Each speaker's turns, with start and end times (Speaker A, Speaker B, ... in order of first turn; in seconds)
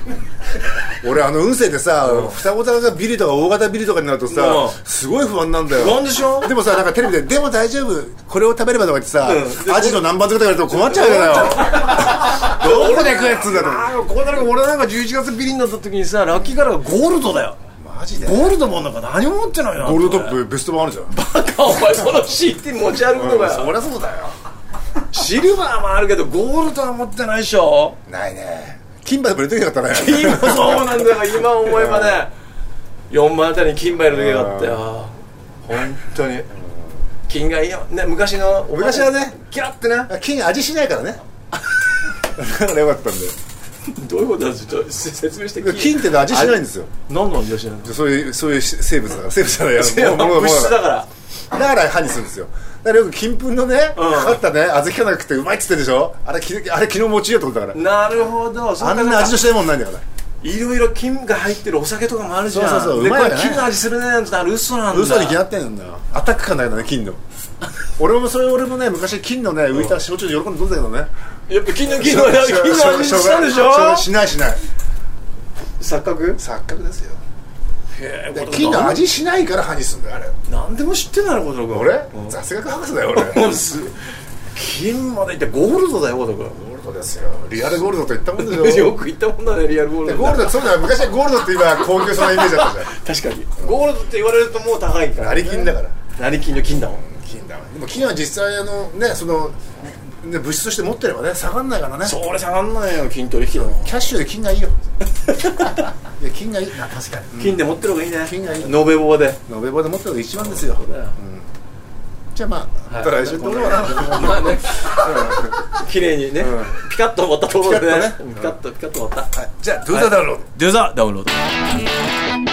Speaker A: 0.8-14.0, 17.8-18.6, 19.8-21.2, 23.1-24.4, 28.1-31.1, 31.6-32.2, 34.1-34.8, 36.5-37.0, 38.8-39.4, 40.0-41.2, 42.2-43.4, 45.6-46.9, 47.8-51.0, 51.5-57.8, 58.8-60.0, 62.5-63.7, 64.9-67.2, 67.8-71.1, 71.8-74.6, 76.4-77.2, 78.3-80.4, 81.7-83.7, 86.5-89.0, 90.0-92.9, 95.1-96.0, 96.7-102.2, 103.5-104.8, 105.9-107.7, 108.2-108.9, 109.5-111.5, 112.3-115.8, 116.3-116.8, 117.5-118.6, 119.3-120.5
Speaker B: 2.1-2.4, 4.3-4.8, 5.7-6.6, 9.2-10.1, 10.7-17.6, 18.2-20.4, 21.1-23.7, 25.1-28.0, 29.9-32.3, 33.1-36.5, 37.3-40.1, 43.9-48.0, 49.7-51.1, 54.0-54.4, 57.7-59.5, 60.4-65.4, 71.5-74.1, 75.8-76.4, 77.9-79.1, 80.5-82.4, 83.1-86.6, 88.3-90.9, 92.1-97.0, 102.0-104.1, 105.2-105.9, 107.4-109.4, 110.4-111.2, 112.9-119.3, 119.9-121.8